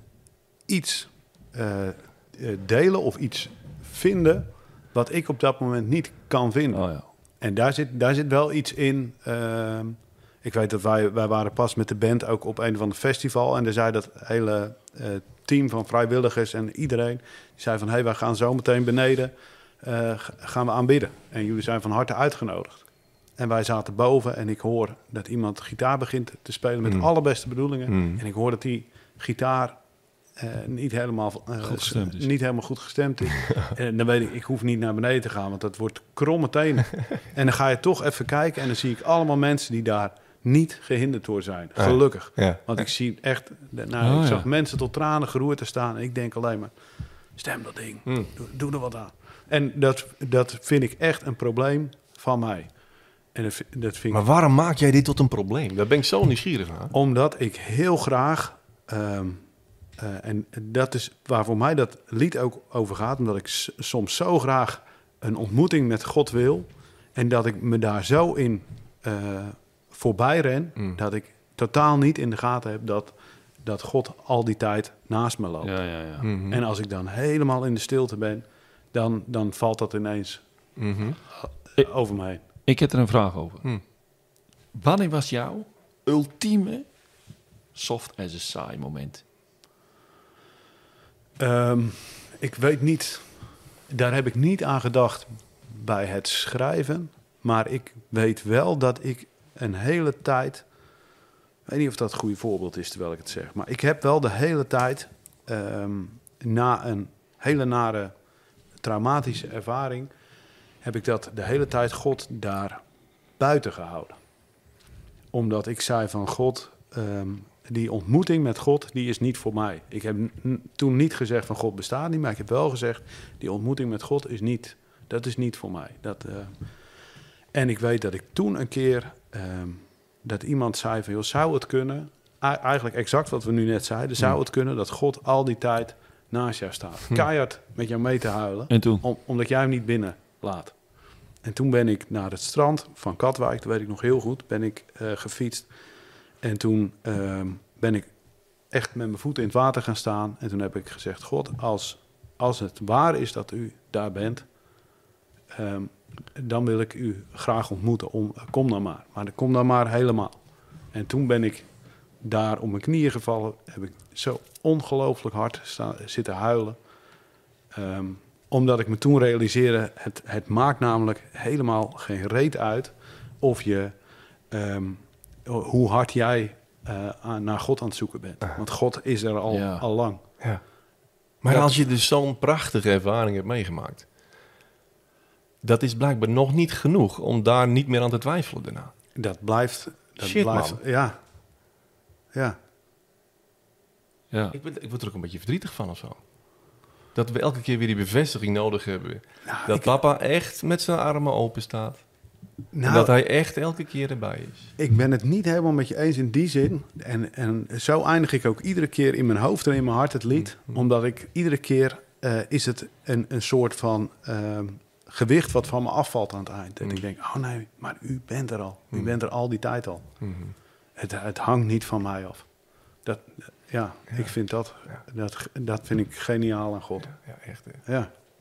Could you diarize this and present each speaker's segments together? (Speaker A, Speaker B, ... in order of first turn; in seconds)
Speaker A: 0.7-46.8, 47.3-54.2, 56.9-80.5, 81.8-82.4, 91.4-100.7, 101.7-108.1, 108.8-110.1, 110.8-112.8, 113.4-114.2, 115.3-127.0, 127.5-145.8, 146.3-154.5, 155.5-160.4, 160.9-161.7, 162.2-166.8, 167.7-180.2, 181.5-181.8, 189.2-191.2, 199.5-199.9, 202.7-203.2, 204.8-220.3, 221.0-227.2, 227.8-228.1
Speaker B: 6.7-7.1, 31.6-32.3, 44.0-44.5, 75.6-76.3, 82.4-83.9, 84.7-86.9, 87.7-89.2, 138.7-139.0, 179.5-179.9, 194.3-194.6
Speaker C: 27.6-28.2, 41.8-42.9, 48.1-48.3, 54.1-56.9, 76.2-76.6, 80.8-81.2, 181.4-184.1, 185.6-188.9, 190.2-190.8, 194.5-202.1, 202.8-204.7, 210.4-210.8, 220.2-220.6, 224.1-225.0, 227.0-227.9